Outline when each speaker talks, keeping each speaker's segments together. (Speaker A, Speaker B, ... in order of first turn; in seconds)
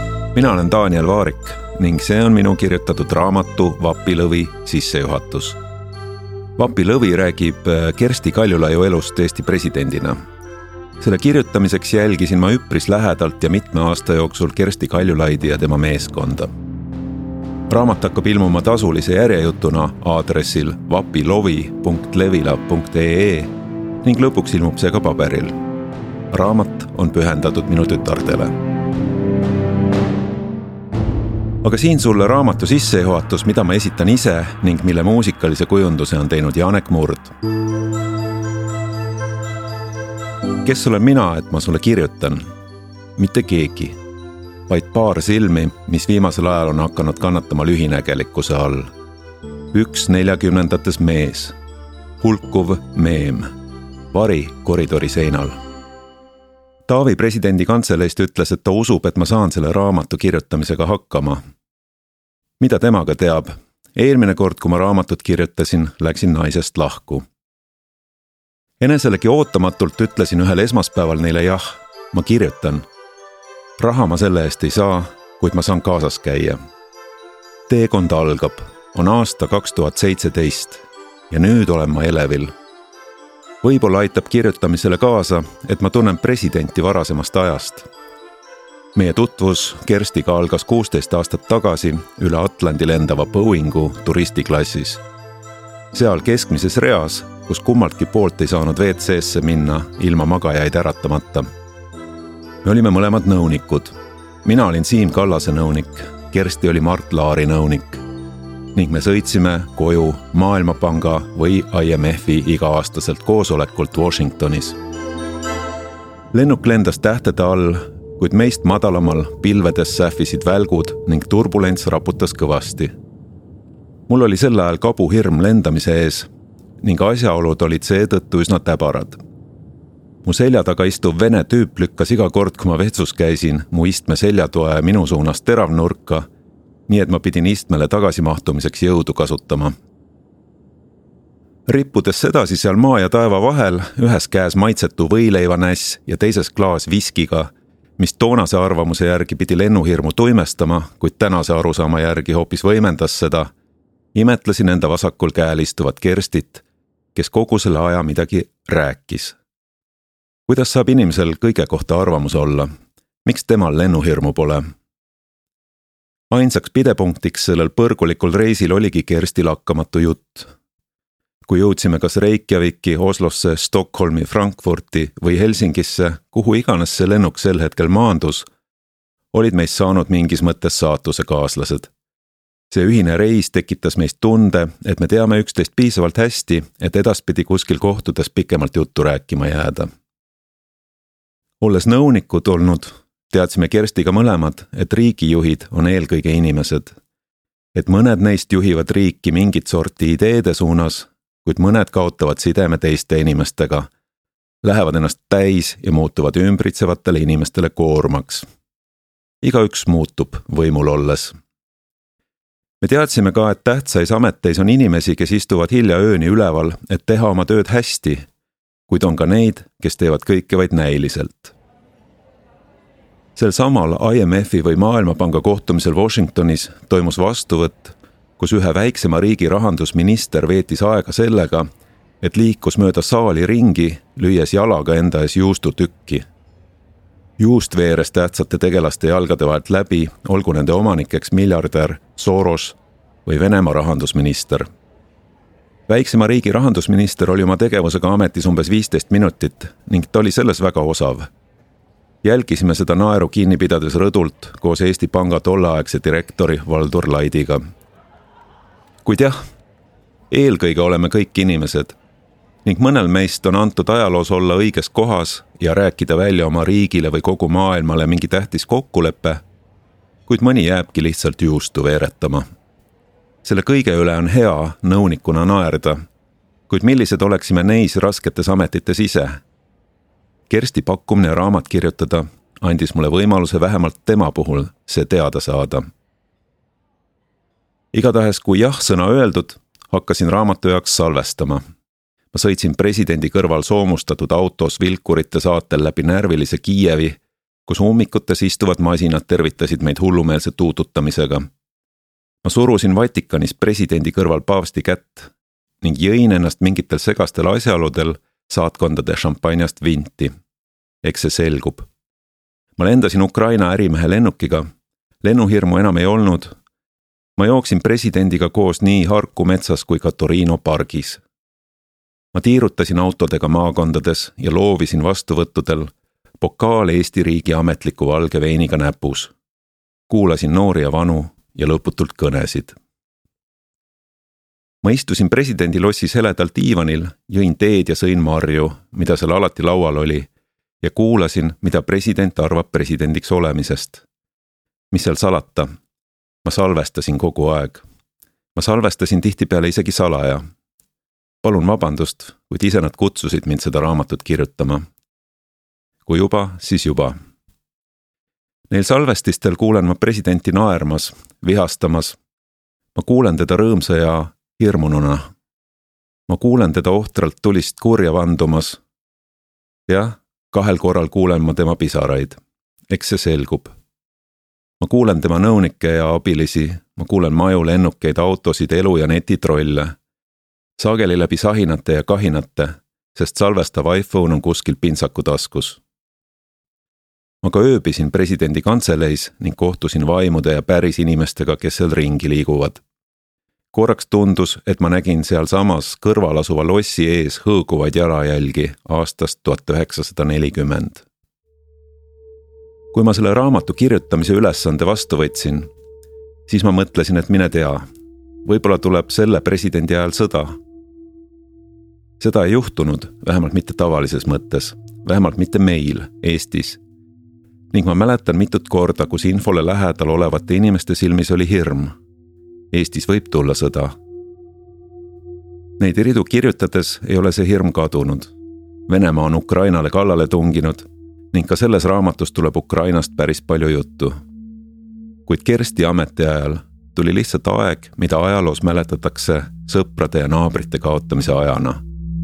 Speaker A: 0.3-5.6, 6.6-10.2, 11.0-16.5, 17.7-23.5, 24.0-25.5, 26.3-28.5, 31.6-37.3, 40.6-42.5, 43.1-44.0, 44.7-48.9, 49.7-51.5, 52.2-53.5, 54.1-55.6, 56.9-61.4, 62.6-67.2, 68.8-72.8, 73.8-76.6, 77.7-82.5, 83.6-87.9, 88.9-95.0, 95.9-101.5, 102.6-108.0, 108.7-114.8, 116.3-122.9, 124.1-126.3, 126.8-129.2, 130.2-136.3, 136.9-139.7, 141.7-153.5, 154.1-159.4, 160.5-162.7, 163.2-164.6, 166.3-170.5, 171.4-178.5, 179.3-181.9, 182.7-189.9, 191.6-196.9, 197.7-203.9, 204.6-208.4, 209.4-211.3, 212.8-218.2, 218.9-221.6, 223.3-231.7, 232.2-236.2, 237.4-244.7, 245.9-251.3, 252.2-257.6, 259.0-259.4, 260.3-261.9, 262.6-269.4, 270.3-272.4, 273.4-276.0, 276.7-279.4, 280.5-285.9, 287.9-291.6, 292.3-301.5, 302.4-305.3, 305.8-310.3, 311.0-311.9, 312.8-314.7, 315.2-316.6, 317.4-321.2, 322.3-329.3, 330.1-332.8, 334.8-340.3, 340.8-344.0, 344.9-345.7, 346.4-347.8, 348.5-350.4, 351.4-354.8, 356.1-357.1, 358.7-362.2, 362.9-365.3, 366.3-368.8, 369.9-372.4, 372.9-373.7, 374.8-379.9, 380.8-385.8, 387.4-392.8, 393.7-401.0, 402.9-405.7, 406.5-407.9, 408.4-410.6, 412.2-416.8, 417.7-421.9, 422.7-423.9, 425.8-428.3, 428.9-434.1, 435.2-441.8